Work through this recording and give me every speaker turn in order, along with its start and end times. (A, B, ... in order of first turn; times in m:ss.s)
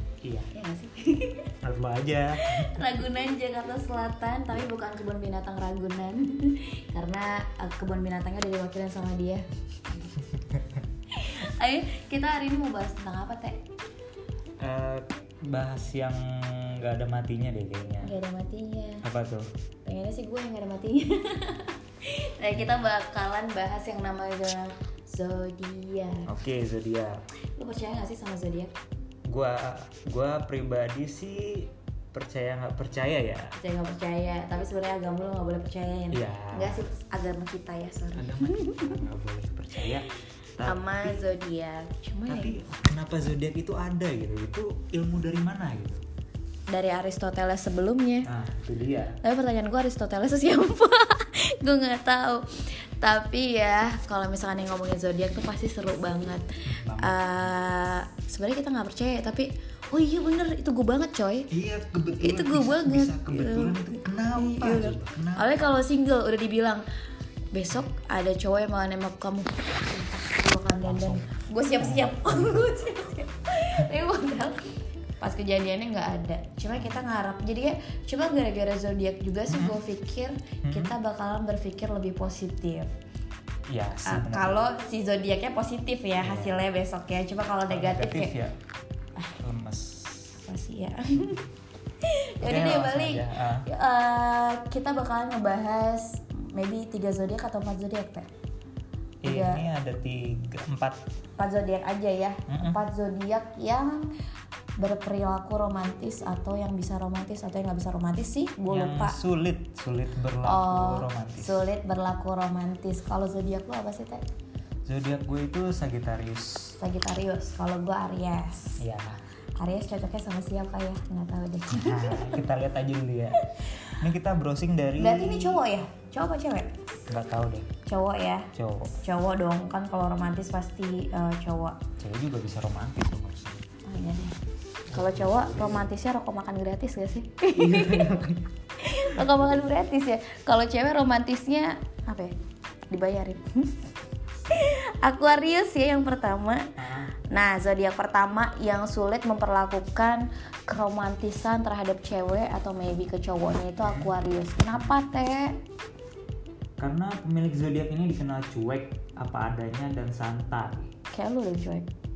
0:00.2-0:00.5 A
0:00.5-0:01.5 B
0:01.6-0:02.8 A
0:02.5-0:09.4 B
0:11.1-0:13.6 B
0:14.6-0:18.1 A
0:18.0-0:19.0 B
0:19.0-0:19.5 A
0:19.8-0:26.3 B
0:26.3-0:27.2 A
0:27.6-0:28.7 B
0:29.3-0:33.6 A
0:33.6-0:39.0 B
0:36.1-0:36.8 A
0:38.1-0:41.3 A
0:40.6-0:42.6 B
0:42.3-0:46.0 A
0:46.7-0:48.3 B
0:48.2-0:49.2 A
0:49.2-1:01.5 B
0:56.7-0:57.5 A
1:01.5-1:05.7 A
1:02.1-1:06.8 B
1:07.5-1:22.9 B
1:10.8-1:11.3 A
1:11.8-1:12.7 A
1:16.7-1:17.0 A
1:19.5-1:19.8 A
1:20.6-1:20.9 A
1:23.7-1:24.7 A
1:24.0-1:28.4 B
1:26.2-1:26.6 A
1:27.7-1:28.6 A
1:29.3-1:30.4 A
1:30.4-1:31.4 B
1:32.0-1:38.3 B
1:32.4-1:33.7 A
1:39.2-1:41.0 A
1:39.2-1:39.6 B
1:41.4-1:44.1 B
1:42.5-1:42.8 A
1:44.8-1:49.2 B
1:48.7-1:51.6 A
1:50.4-1:54.2 B
1:54.8-1:56.8 A
1:56.8-1:58.8 B
1:58.8-1:59.2 A
1:59.6-2:02.4 B
2:01.7-2:05.6 A
2:03.4-2:03.9 B
2:05.0-2:06.7 B
2:07.1-2:07.7 A
2:07.8-2:08.5 B
2:08.5-2:08.9 A
2:09.0-2:11.8 B
2:12.0-2:13.6 A
2:13.8-2:14.3 B
2:14.9-2:15.9 A
2:14.9-2:18.1 B
2:17.6-2:18.4 A
2:18.8-2:22.4 B
2:19.2-2:19.6 A
2:22.9-2:23.8 B
2:24.5-2:26.7 B
2:26.8-2:27.1 A
2:27.3-2:35.6 B
2:33.8-2:34.1 A
2:36.8-2:40.9 A
2:41.1-2:41.9 B